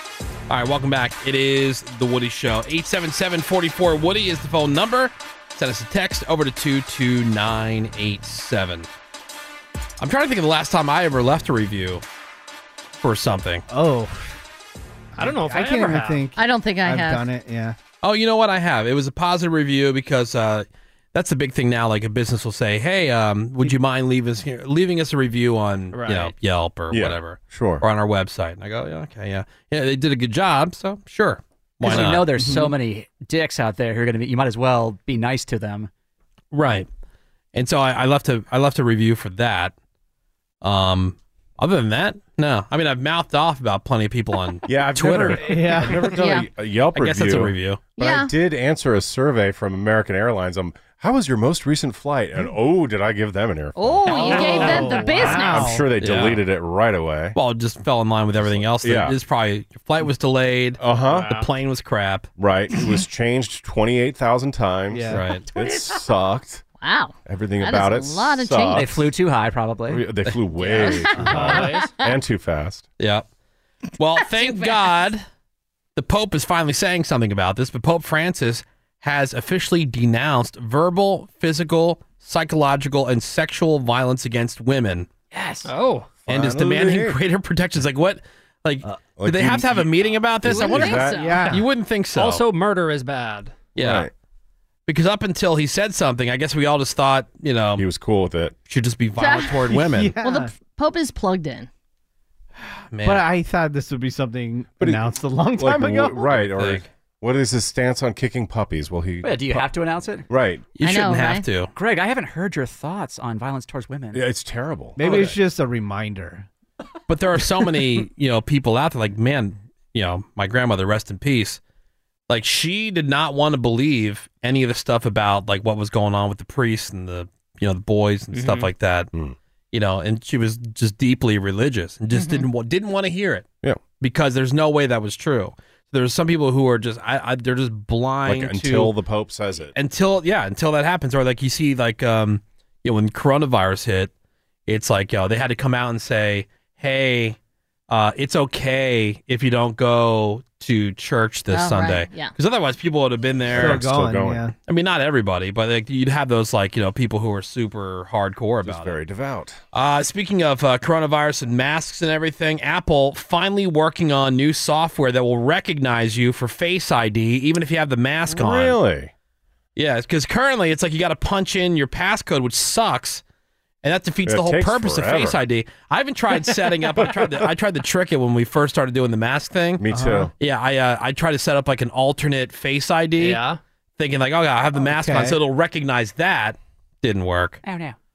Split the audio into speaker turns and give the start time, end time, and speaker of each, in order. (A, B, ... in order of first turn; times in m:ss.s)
0:00.5-0:08.9 A
0:10.0-0:12.0 A
0:13.0-0:13.6 A
0:13.7-0:14.4 B
0:15.2-0:17.8 B
0:15.2-0:16.2 C
0:16.4-0:17.2 D
0:18.0-0:32.4 A
0:25.9-0:26.3 C
0:26.9-0:27.8 E
0:31.8-0:35.9 F
0:31.9-0:32.7 B
0:36.5-0:36.9 A
0:37.5-0:39.7 A
0:40.6-0:46.1 A
0:44.7-0:57.4 E
0:45.4-0:46.1 B
0:46.2-0:46.5 D
0:47.0-0:47.8 A
0:48.0-0:48.3 D
0:53.8-0:55.8 D
0:54.1-0:55.9 B
0:54.5-0:54.8 C
0:56.0-0:56.4 A
0:57.4-1:02.3 A
0:58.4-0:59.2 E
1:00.8-1:01.4 E
1:01.1-1:01.4 C
1:02.4-1:06.6 E
1:04.9-1:05.2 B
1:05.1-1:05.4 A
1:06.8-1:08.9 D
1:07.3-1:09.0 E
1:08.7-1:10.1 F
1:09.9-1:12.9 E
1:10.8-1:11.9 C
1:10.8-1:12.1 D
1:11.2-1:11.6 B
1:13.0-1:13.2 A
1:14.0-1:15.2 A
1:14.2-1:15.0 D
1:16.0-1:25.1 A
1:25.3-1:25.7 F
1:25.6-1:26.1 C
1:26.3-1:27.2 E
1:26.3-1:32.4 A
1:29.0-1:31.2 E
1:30.5-1:31.4 D
1:31.2-1:31.6 B
1:32.1-1:33.6 C
1:33.8-1:34.1 A
1:33.8-1:34.1 E
1:34.9-1:37.9 A
1:37.8-1:38.5 E
1:38.7-1:40.2 A
1:39.2-1:39.7 D
1:39.7-1:40.5 B
1:40.2-1:41.7 D
1:42.9-1:43.3 A
1:43.0-1:46.3 B
1:44.8-1:49.7 E
1:46.4-1:46.9 A
1:49.2-1:50.3 F
1:50.3-1:50.6 E
1:50.8-1:51.7 A
1:50.8-1:51.4 D
1:51.8-1:54.2 F
1:54.1-1:55.4 E
1:55.0-1:56.5 B
1:57.1-2:01.6 A
2:02.3-2:09.1 A
2:08.3-2:08.7 C
2:09.7-2:13.5 A
2:12.1-2:12.5 D
2:14.0-2:19.0 A
2:18.3-2:19.7 E
2:19.8-2:24.1 A
2:24.7-2:27.4 A
2:27.9-2:33.8 A
2:31.5-2:32.3 D
2:33.4-2:34.5 E
2:33.5-2:34.5 B
2:34.7-2:39.0 A
2:38.6-2:39.6 E
2:39.7-2:48.8 A
2:48.3-2:49.1 E
2:49.8-2:53.2 A
2:53.8-2:59.8 A
2:54.3-2:55.4 E
2:57.0-2:57.4 E
2:59.8-3:00.3 E
2:59.9-3:00.3 B
3:00.4-3:03.4 A
3:03.2-3:03.6 C
3:04.0-3:07.6 A
3:04.8-3:05.4 B
3:07.6-3:08.0 F